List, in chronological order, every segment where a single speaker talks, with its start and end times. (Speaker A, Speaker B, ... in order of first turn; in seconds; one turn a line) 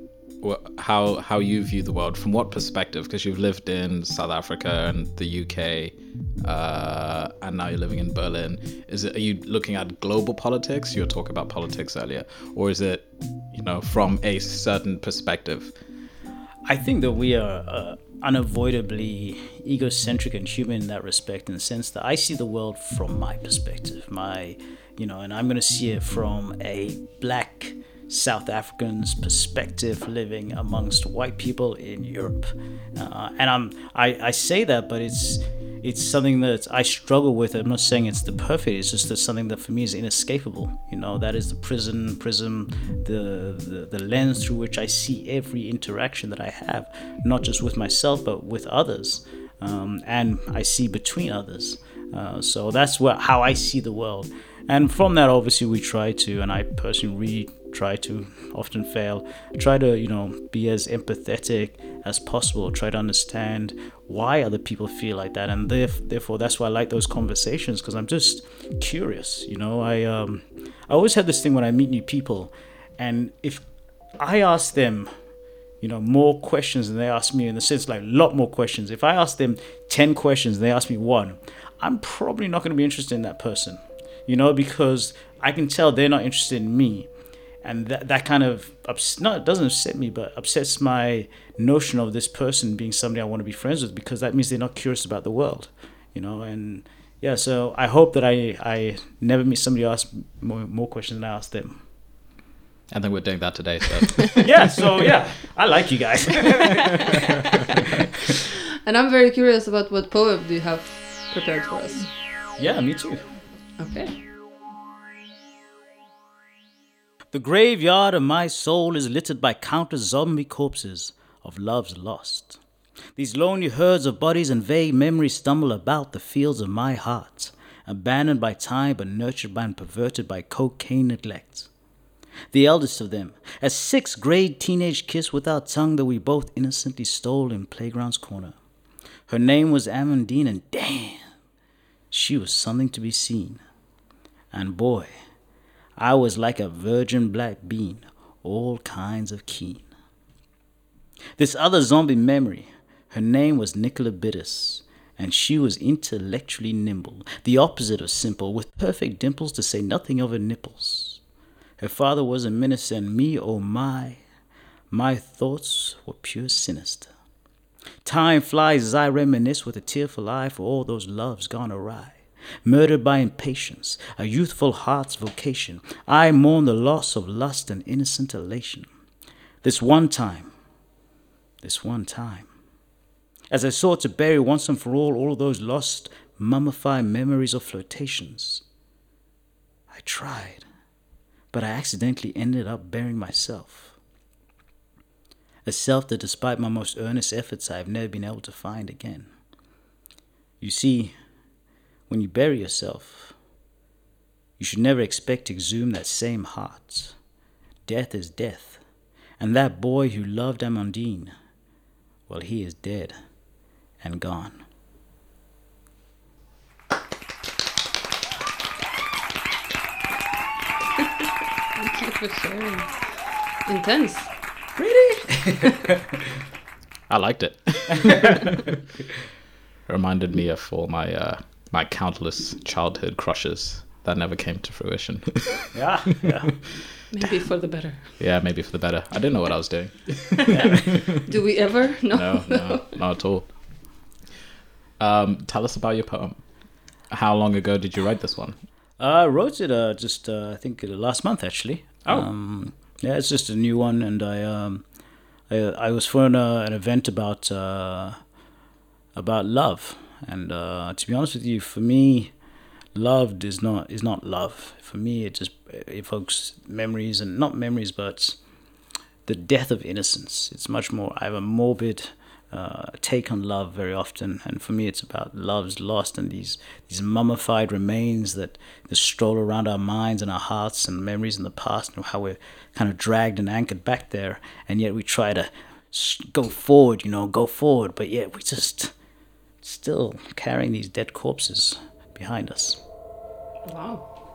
Speaker A: 0.4-15.7
Speaker B: 16.6-73.6
Speaker B: 74.2-75.1
Speaker B: 75.8-87.1
Speaker B: 87.6-101.8
Speaker A: 102.9-104.5
Speaker B: 104.4-107.6
Speaker C: 108.8-112.1
Speaker B: 112.6-113.2
Speaker C: 113.8-114.1
Speaker B: 117.3-122.6
Speaker B: 123.2-131.7
Speaker B: 132.5-138.5
Speaker B: 139.3-141.3
Speaker B: 142.1-143.6
Speaker B: 144.5-145.1
Speaker B: 146.0-149.9
Speaker B: 151.4-161.2
Speaker B: 161.8-164.2
Speaker B: 164.9-167.1
Speaker B: 168.0-178.9
Speaker B: 179.6-180.5
Speaker B: 181.6-182.5
Speaker B: 183.5-188.6
Speaker B: 189.9-190.6
Speaker B: 191.5-194.0
Speaker B: 195.6-199.3
Speaker B: 200.6-201.1
Speaker B: 202.1-203.3
Speaker B: 204.6-207.2
Speaker B: 207.8-208.8
Speaker B: 209.4-211.3
Speaker B: 212.3-213.2
Speaker B: 214.0-214.6
Speaker C: 221.7-224.3
Speaker B: 224.8-226.1
Speaker A: 227.1-228.4
Speaker A: 229.9-235.7
Speaker B: 235.7-236.5
Speaker C: 237.1-238.1
Speaker A: 238.2-241.2
Speaker B: 240.5-241.0
Speaker C: 241.1-242.9
Speaker A: 242.1-243.5
Speaker A: 245.0-246.4
Speaker A: 247.1-248.6
Speaker B: 249.0-254.8
Speaker B: 255.5-258.2
Speaker B: 259.1-262.3
Speaker B: 262.9-268.4
Speaker B: 269.2-288.9
Speaker B: 289.6-292.8
Speaker C: 293.7-294.0